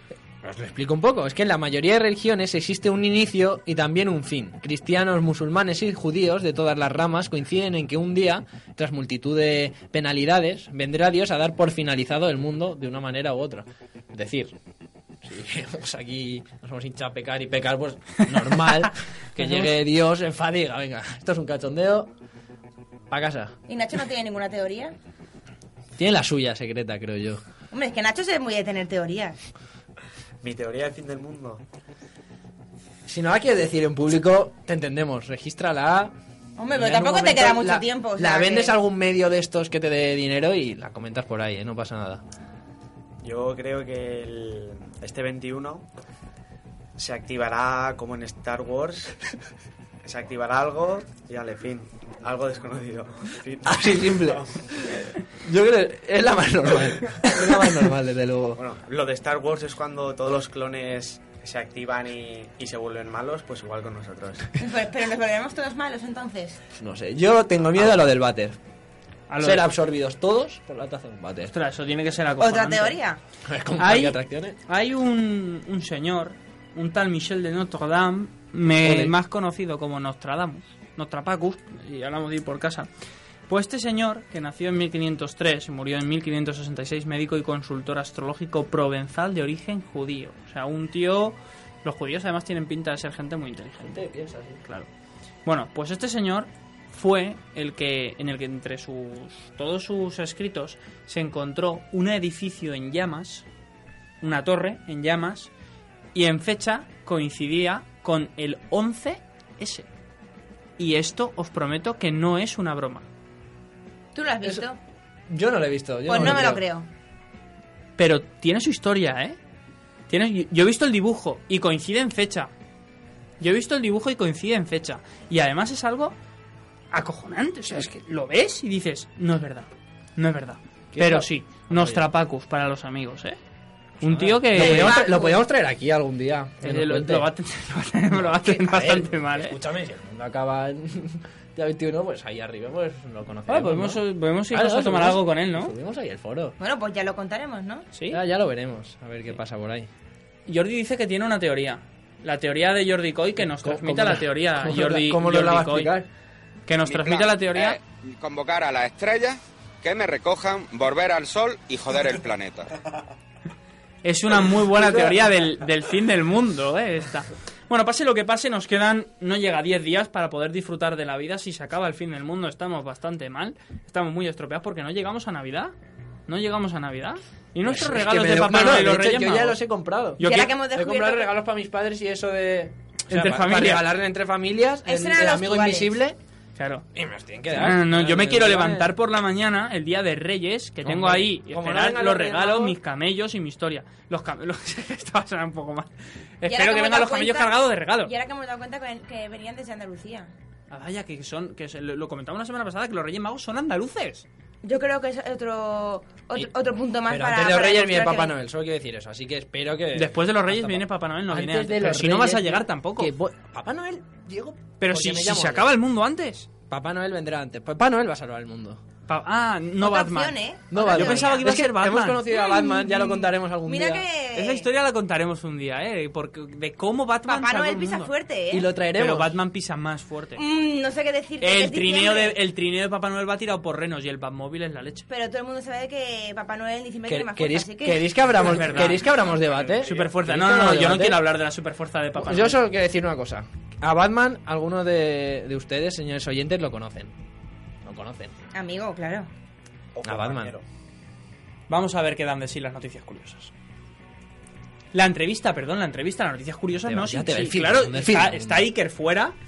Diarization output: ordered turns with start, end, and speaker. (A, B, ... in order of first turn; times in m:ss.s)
0:00.4-0:14.6 A
0:15.2-0:22.1 A
0:19.4-0:19.7 B
0:23.1-0:23.5 A
0:23.7-0:24.9 C
0:26.0-0:27.4 A
0:27.7-0:29.4 C
0:30.4-0:31.6 D
0:33.1-0:36.1 A
0:36.6-0:38.7 C
0:36.7-0:42.2 A
0:43.2-0:45.8 D
0:47.0-0:49.2 D
0:50.0-0:54.5 D
0:53.6-0:58.6 A
0:58.6-1:04.5 D
1:04.6-1:06.6 C
1:06.7-1:08.6 A
1:09.3-1:09.7 B
1:09.4-1:11.5 A
1:11.5-1:13.0 B
1:12.4-1:13.2 C
1:13.4-1:14.6 A
1:13.8-1:22.9 B
1:18.8-1:19.1 A
1:23.5-1:34.0 B
1:33.8-1:34.6 A
1:35.4-1:43.4 B
1:44.2-1:45.5 B
1:46.1-1:49.9 B
1:50.8-1:53.0 B
1:54.1-1:54.8 C
1:55.3-1:56.6 A
1:56.1-1:56.9 C
1:58.0-1:59.4 B
2:00.1-2:02.5 B
2:03.4-2:06.1 B
2:06.9-2:13.4 B
2:10.9-2:12.0 A
2:14.0-2:15.0 B
2:14.0-2:17.3 A
2:14.6-2:15.4 C
2:16.6-2:19.6 B
2:18.1-2:26.6 A
2:23.5-2:25.7 B
2:26.6-2:27.8 C
2:27.9-2:28.2 B
2:28.1-2:29.9 A
2:30.5-2:35.9 B
2:33.5-2:36.1 A
2:36.7-2:37.8 B
2:36.8-2:42.7 E
2:44.0-2:55.7 B
2:44.7-2:45.3 A
2:56.3-2:59.6 B
2:57.6-3:06.2 A
3:00.2-3:00.5 B
3:00.2-3:01.3 C
3:03.1-3:03.8 B
3:04.8-3:05.9 C
3:06.6-3:06.8 B
3:06.9-3:08.9 A
3:07.5-3:15.9 B
3:10.8-3:12.8 A
3:16.4-3:18.1 B
3:16.4-3:20.3 C
3:20.7-3:24.2 B
3:24.6-3:28.3 C
3:27.1-3:35.7 A
3:29.9-3:33.1 B
3:34.8-3:36.5 B
3:36.7-3:38.8 A
3:39.1-3:42.2 B
3:39.8-3:41.6 C
3:40.7-3:44.0 A
3:42.3-3:44.7 C
3:44.3-3:48.1 B
3:47.2-3:48.7 C
3:48.5-3:49.3 A
3:49.0-3:50.4 B
3:50.4-3:52.4 C
3:51.4-3:55.0 B
3:55.1-3:58.2 C
3:57.0-4:01.2 A
3:58.4-4:02.6 B
3:59.8-4:00.1 D
4:02.2-4:07.1 A
4:07.8-4:08.4 A
4:08.5-4:09.3 C
4:09.9-4:10.6 D
4:10.0-4:10.5 A
4:11.7-4:13.5 B
4:14.9-4:19.3 B
4:16.8-4:18.7 A